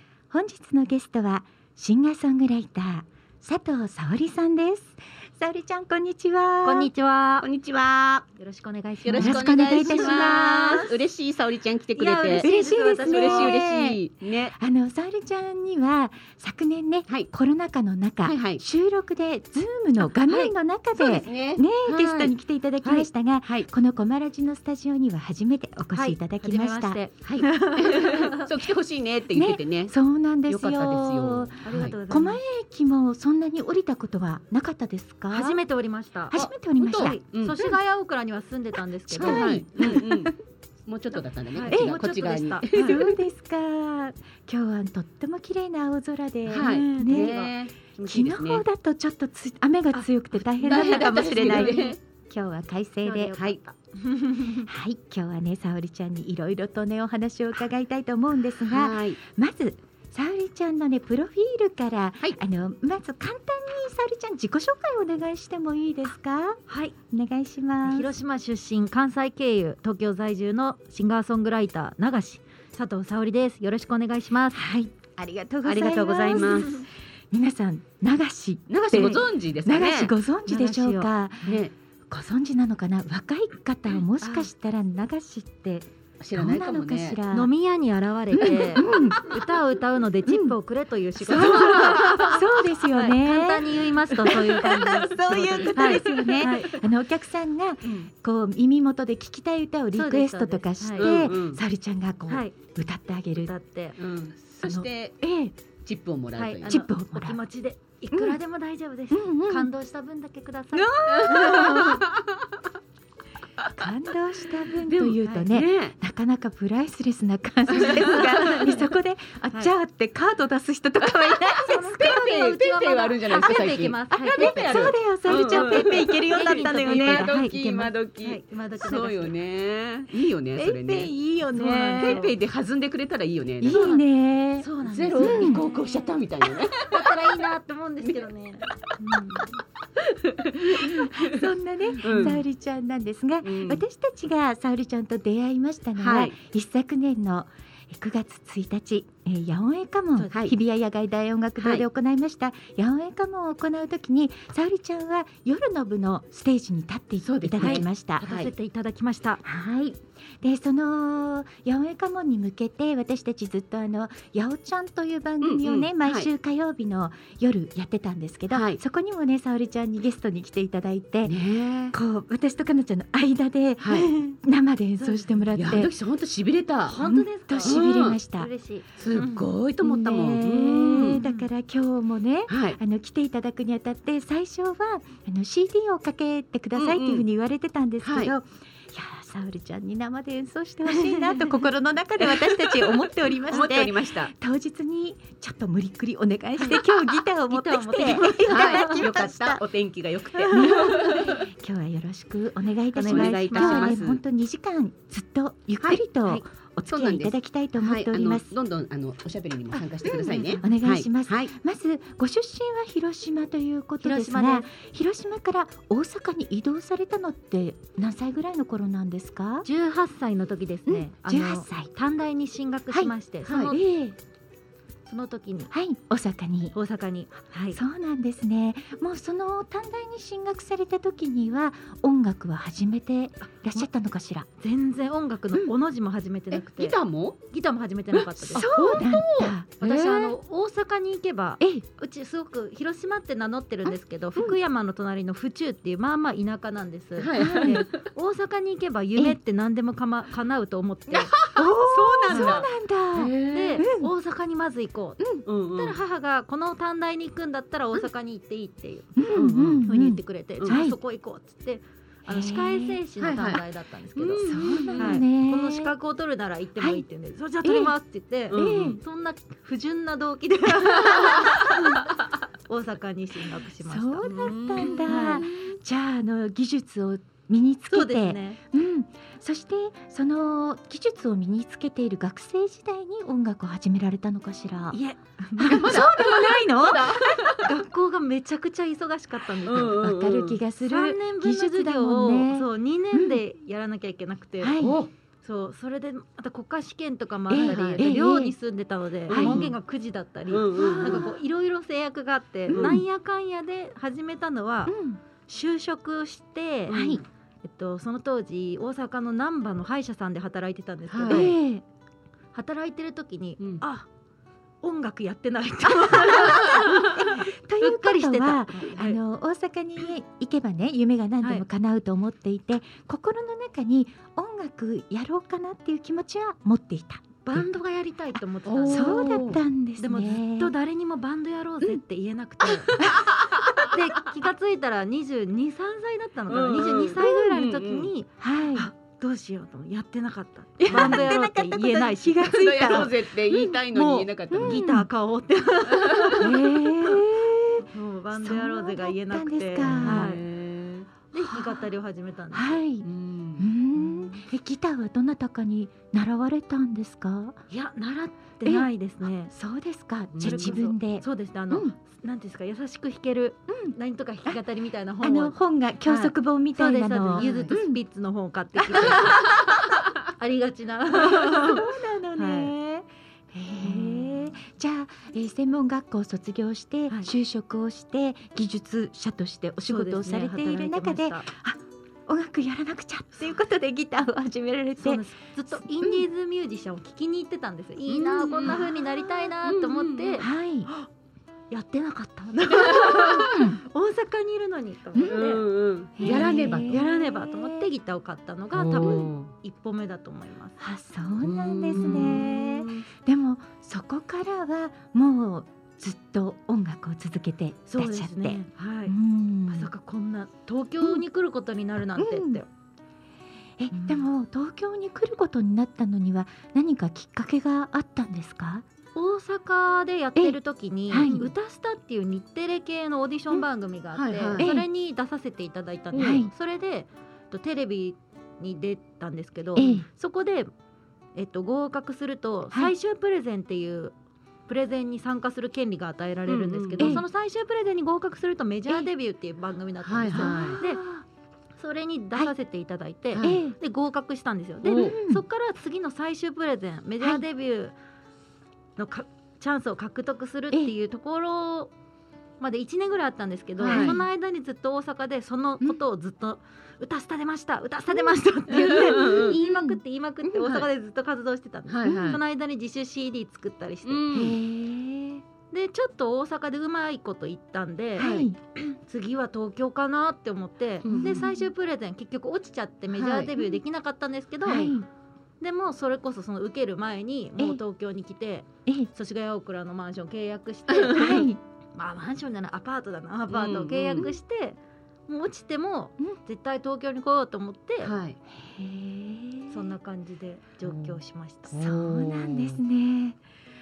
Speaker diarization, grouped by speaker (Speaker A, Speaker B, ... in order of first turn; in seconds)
Speaker A: 0.3-6.9, 9.1-10.9, 12.4-14.0, 14.6-27.0, 29.3-35.6, 36.3-37.2, 39.1-40.3, 41.7-42.0, 42.7-47.5, 48.0-53.3, 54.6-68.1, 74.5-81.6, 82.1-87.5, 88.4-89.4, 90.3-90.5, 91.3-103.5, 104.6-105.5, 106.6-107.4, 108.1-108.4, 109.1-109.7, 110.7-112.0, 113.7-122.1, 124.1-127.3, 130.5-132.2, 133.6-135.6, 140.7-158.2, 159.4-171.4, 171.9-175.9, 176.9-178.5, 179.8-199.6, 200.4-208.5, 210.6-219.7, 220.9-221.9, 223.7-224.2, 225.7-226.7, 227.7-234.5, 238.5-239.7, 247.3-247.8, 251.5-254.1, 259.2-260.9, 262.3-263.0, 264.4-265.9, 266.8-267.0, 267.6-267.9, 268.5-269.0, 273.9-285.0, 285.6-287.2, 289.8-293.4, 294.6-295.0, 297.5-298.5, 299.3-299.7, 300.8-301.3, 302.7-303.0, 304.9-305.2, 306.9-307.2, 311.3-311.8, 316.1-327.6, 328.9-330.7, 338.4-338.9, 340.8-343.7, 344.5-345.1, 346.4-350.3, 351.4-351.8, 352.5-357.6, 359.5-361.9, 363.7-363.9, 365.2-368.0, 368.8-369.3, 371.3-385.2, 385.8-386.2, 390.4-390.9, 393.4-393.8, 396.2-397.9, 400.8-409.9, 412.2-412.6, 413.8-418.8, 421.1-421.5, 424.6-424.9, 426.1-426.5, 429.8-430.1, 440.3-441.2, 443.4-443.8, 444.9-445.4, 453.8-454.2, 458.8-460.0, 464.3-465.4, 468.2-468.6, 471.1-471.7, 474.6-475.1, 481.1-481.6, 488.5-489.9, 491.7-493.4
Speaker B: 6.6-7.5, 8.4-10.9, 11.9-13.6, 20.3-20.5, 25.9-28.5, 31.6-32.4, 35.3-40.1, 41.5-43.1, 46.5-47.5, 49.9-51.9, 53.0-54.7, 66.7-66.9, 67.8-74.6, 78.9-79.2, 80.5-81.6, 84.2-84.5, 87.3-96.8, 99.9-101.2, 103.4-104.0, 106.3-112.0, 118.1-118.8, 121.6-129.3, 131.5-132.3, 133.7-134.0, 134.6-136.1, 136.8-139.6, 157.6-159.4, 175.0-175.4, 176.9-177.8, 178.4-179.5, 181.2-181.5, 191.0-191.5, 196.6-199.1, 200.5-200.9, 202.9-204.0, 210.1-210.8, 214.0-214.7, 219.6-223.8, 225.1-225.7, 226.7-227.8, 234.6-237.0, 237.5-251.3, 252.3-252.6, 253.5-259.2, 259.9-272.1, 272.7-274.4, 275.0-275.7, 277.9-278.6, 284.9-286.1, 287.4-290.0, 290.8-307.0, 307.6-311.6, 312.5-314.1, 314.8-319.2, 327.4-333.1, 333.8-343.1, 343.9-346.8, 347.8-350.4, 351.3-352.8, 357.7-359.5, 360.4-369.6, 370.4-372.7, 373.8-374.5, 379.9-381.5, 385.0-391.1, 391.7-395.6, 396.2-400.8, 402.0-402.4, 407.9-409.1, 409.7-412.6, 413.9-414.3, 419.1-430.7, 431.3-434.1, 434.7-441.0, 441.8-447.9, 449.0-451.9, 452.6-464.2, 465.7-474.9, 475.6-488.1, 489.7-491.8
Speaker C: 7.4-8.2, 9.0-12.5, 13.1-14.6, 18.2-18.6, 20.9-22.4, 27.2-29.9, 30.5-31.9, 36.3-37.7, 39.1-40.3, 40.9-43.2, 46.5-48.6, 50.6-52.0, 58.7-59.2, 75.6-76.8, 78.7-80.1, 81.5-81.7, 86.2-87.2, 91.3-92.3, 97.8-98.1, 101.0-101.6, 104.0-105.2, 105.8-106.8, 111.1-112.5, 114.9-115.9, 117.7-118.9, 121.0-134.0, 134.8-137.3, 139.9-141.5, 142.0-142.4, 143.4-143.8, 145.9-146.3, 151.6-151.8, 157.2-158.5, 165.4-166.3, 168.5-168.8, 171.2-171.9, 173.8-174.1, 175.6-177.0, 177.6-178.2, 179.0-181.2, 182.5-182.8, 186.7-187.2, 188.0-188.3, 192.2-194.3, 198.5-201.4, 203.0-204.2, 206.9-211.5, 223.4-223.7, 236.5-237.4, 238.1-238.7, 239.8-240.3, 247.2-248.1, 251.1-253.8, 255.4-256.0, 259.3-259.8, 263.2-263.6, 264.1-265.2, 268.5-269.0, 271.0-271.9, 274.3-275.7, 285.7-287.7, 289.6-290.6, 294.8-295.1, 297.6-298.1, 299.3-299.8, 300.5-301.3, 302.7-303.0, 306.9-307.2, 311.1-311.5, 328.6-329.6, 332.7-334.3, 336.5-338.1, 340.9-341.3, 342.4-344.8, 345.9-346.5, 349.8-351.1, 353.0-353.7, 360.3-360.8, 367.4-367.7, 388.1-388.9, 389.6-390.4, 392.8-393.6, 395.2-397.0, 398.7-399.5, 401.4-403.1, 424.1-424.7, 426.1-426.4, 436.5-437.2, 440.0-440.8, 443.3-443.6, 444.8-445.2, 453.8-454.2, 458.7-459.6, 461.9-462.4, 464.0-464.6, 468.2-468.5, 471.0-471.4, 473.1-473.6, 480.9-481.4, 483.5-484.3, 488.0-488.4, 490.8-491.2, 491.7-492.8